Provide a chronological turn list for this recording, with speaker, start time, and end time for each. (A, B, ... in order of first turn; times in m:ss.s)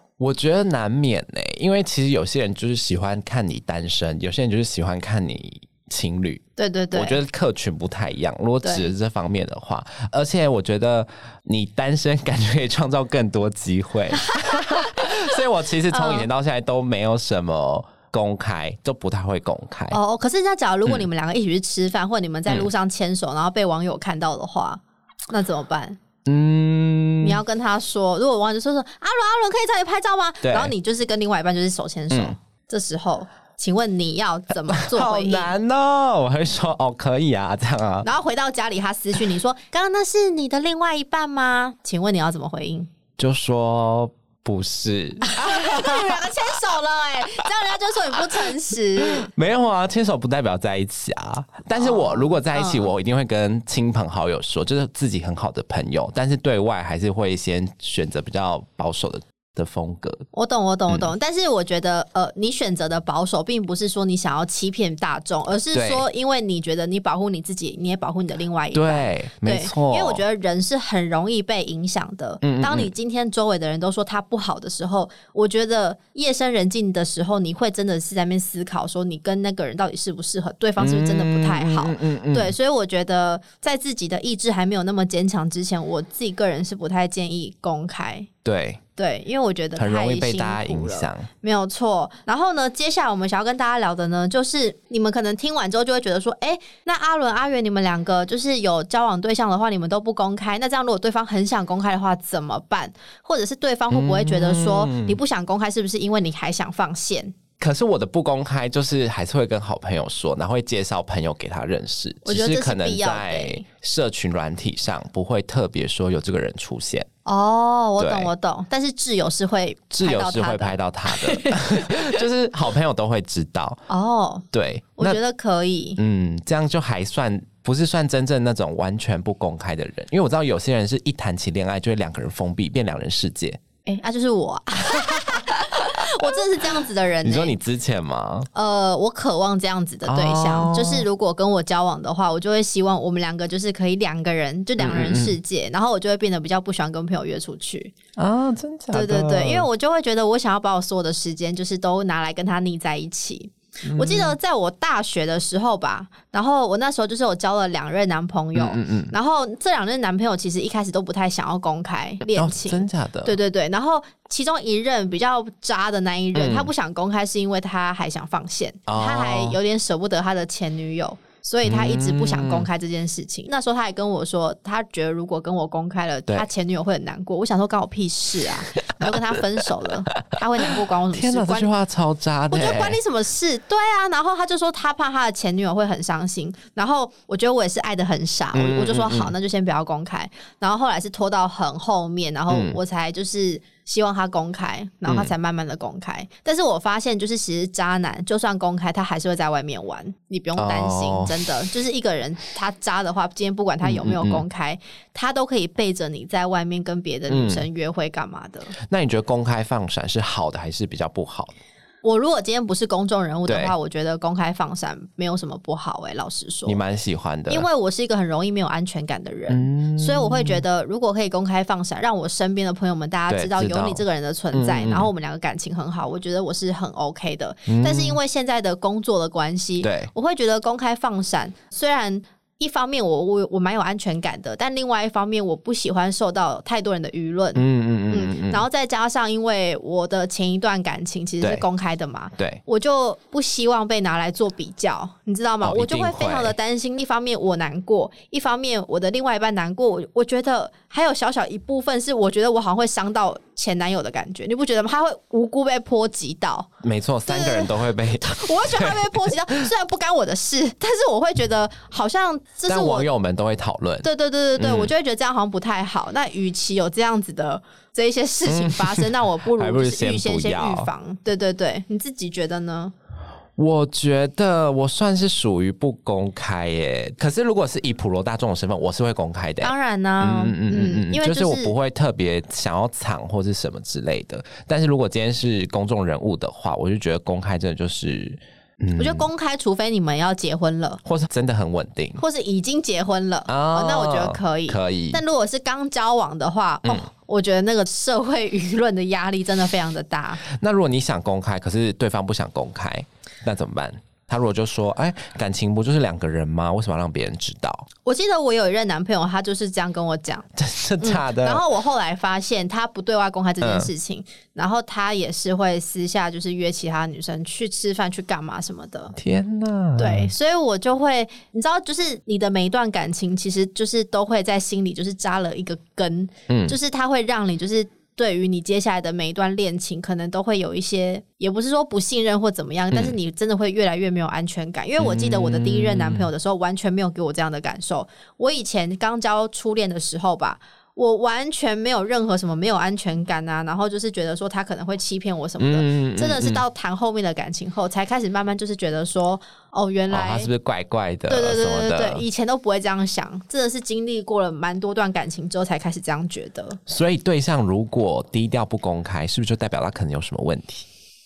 0:00.2-0:20.0 A
0:06.6-0:07.2 B
0:08.6-0:08.9 B
0:14.3-0:15.1 B
0:15.9-0:16.3 B
0:19.9-0:26.0 B
0:26.3-0:27.4 A
0:27.2-0:35.5 B
0:30.4-0:30.7 A
0:32.1-0:32.4 A
0:34.7-0:38.1 A
0:38.0-0:42.9 B
0:43.2-0:46.4 A
0:45.2-0:49.3 B
0:48.3-1:00.3 A
0:51.7-0:52.9 B
1:00.3-1:28.3 B
1:05.7-1:06.1 A
1:08.7-1:10.2 A
1:12.4-1:12.9 A
1:20.8-1:22.6 A
1:28.4-1:28.8 A
1:29.0-1:47.4 B
1:29.8-1:31.3 A
1:43.9-1:45.2 A
1:47.6-1:57.1 A
1:52.2-1:53.6 B
1:57.2-2:02.2 B
1:58.0-1:58.3 A
1:59.9-2:03.8 A
2:03.9-2:04.5 B
2:04.5-2:05.2 A
2:05.0-2:06.0 B
2:06.0-2:13.6 A
2:13.9-2:17.6 B
2:17.2-2:18.5 A
2:18.5-2:27.9 B
2:20.1-2:21.1 A
2:24.8-2:25.4 A
2:28.2-2:29.7 A
2:28.9-3:01.7 B
2:33.9-2:34.4 A
2:38.6-2:39.1 A
2:42.4-2:43.4 A
2:46.3-2:46.7 A
2:48.9-2:49.6 A
2:51.6-2:52.7 A
3:01.1-3:03.0 A
3:02.5-3:28.7 B
3:08.5-3:09.4 A
3:12.5-3:12.8 A
3:15.1-3:15.3 A
3:20.6-3:21.4 A
3:23.8-3:24.4 A
3:27.3-3:27.7 A
3:28.9-3:31.5 A
3:32.0-3:36.8 B
3:33.5-3:33.8 A
3:36.7-3:37.7 A
3:37.5-4:16.7 B
3:39.5-3:40.6 A
3:43.3-3:45.1 A
3:47.7-3:48.2 A
3:49.8-3:50.1 A
3:57.6-3:58.6 A
4:05.6-4:06.6 A
4:16.8-4:19.6 A
4:17.3-4:23.1 B
4:22.7-4:24.9 A
4:24.0-4:32.9 B
4:28.4-4:30.9 A
4:33.6-4:49.3 A
4:39.6-4:41.8 B
4:49.0-4:51.0 B
4:51.0-4:52.2 A
4:52.2-5:00.4 B
4:53.5-4:55.2 A
5:00.4-5:07.9 A
5:08.0-5:10.5 B
5:10.6-5:11.6 A
5:11.0-5:19.2 B
5:13.6-5:13.9 A
5:19.2-5:20.3 A
5:20.0-5:50.5 B
5:26.5-5:26.8 A
5:32.9-5:33.2 A
5:35.0-5:36.3 A
5:45.6-5:46.6 A
5:50.1-5:52.2 A
5:51.3-5:56.8 B
5:56.9-6:00.9 A